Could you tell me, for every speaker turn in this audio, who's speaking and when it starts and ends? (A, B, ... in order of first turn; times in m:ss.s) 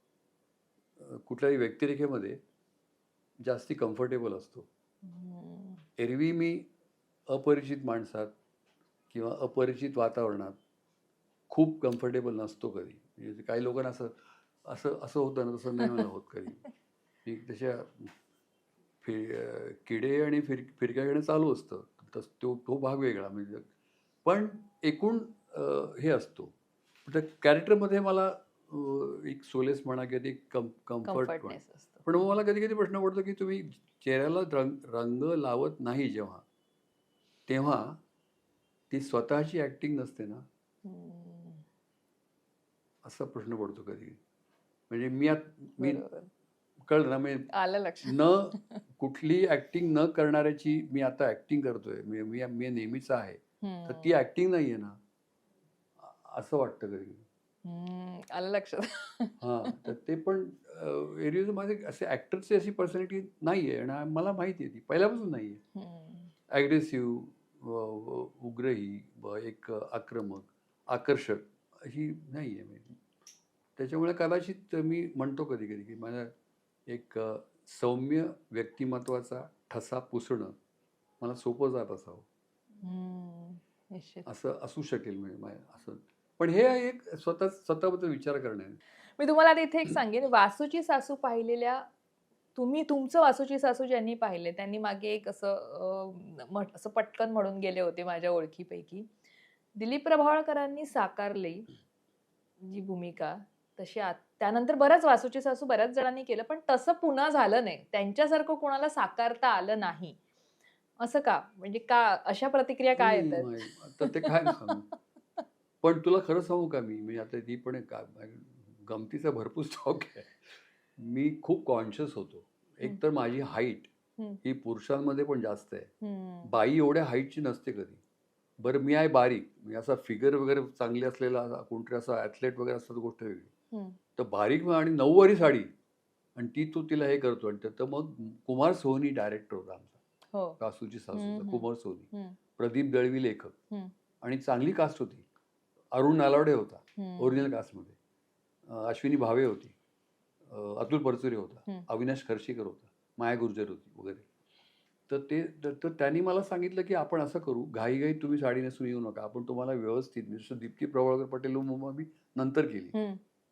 0:01.0-0:02.4 A
0:03.4-0:04.7 A
0:05.0-0:05.8 B
0:06.0-0:06.7 A
0:07.3-0:08.3 A
0:09.1-0:10.6 A
0:11.5-0:16.7 A
0:17.2-0:18.1 A
0:19.0-0:23.7 A
0:24.2-0:26.5 A
0:27.1-0:36.4 A
0:31.0-0:32.1 B
0:37.5-0:38.0 A
0:38.9-0:40.4 A
0:40.8-0:41.6 B
0:43.0-0:44.2 A
0:44.9-0:46.0 A
0:45.8-0:46.3 B
0:46.9-0:47.5 A
0:47.5-0:48.6 B
0:48.0-0:55.0 A
0:53.6-0:54.1 B
0:56.0-0:57.2 A
0:57.6-0:59.9 B
0:59.4-1:05.6 A
1:05.8-1:06.3 B
1:06.5-1:12.9 A
1:13.8-1:16.3 A
1:16.9-1:20.6 A
1:21.2-1:22.2 A
1:22.8-1:24.3 B
1:24.3-1:28.8 A
1:29.2-1:31.9 B
1:32.6-1:39.1 B
1:39.8-1:41.7 B
1:42.6-1:50.2 B
1:51.0-1:54.9 B
1:53.0-1:54.8 A
1:55.8-2:03.9 A
2:04.4-2:05.9 A
2:06.0-2:06.5 B
2:06.4-2:08.0 A
2:08.6-2:13.5 A
2:13.7-2:14.0 B
2:14.2-2:15.7 A
2:16.4-2:20.0 A
2:20.3-2:20.6 B
2:20.6-2:23.5 A
2:21.2-2:22.4 B
2:24.2-2:25.2 A
2:25.9-2:28.0 A
2:27.0-2:27.5 B
2:28.7-2:29.8 A
2:30.5-2:34.2 A
2:35.1-2:42.9 A
2:42.9-2:43.2 B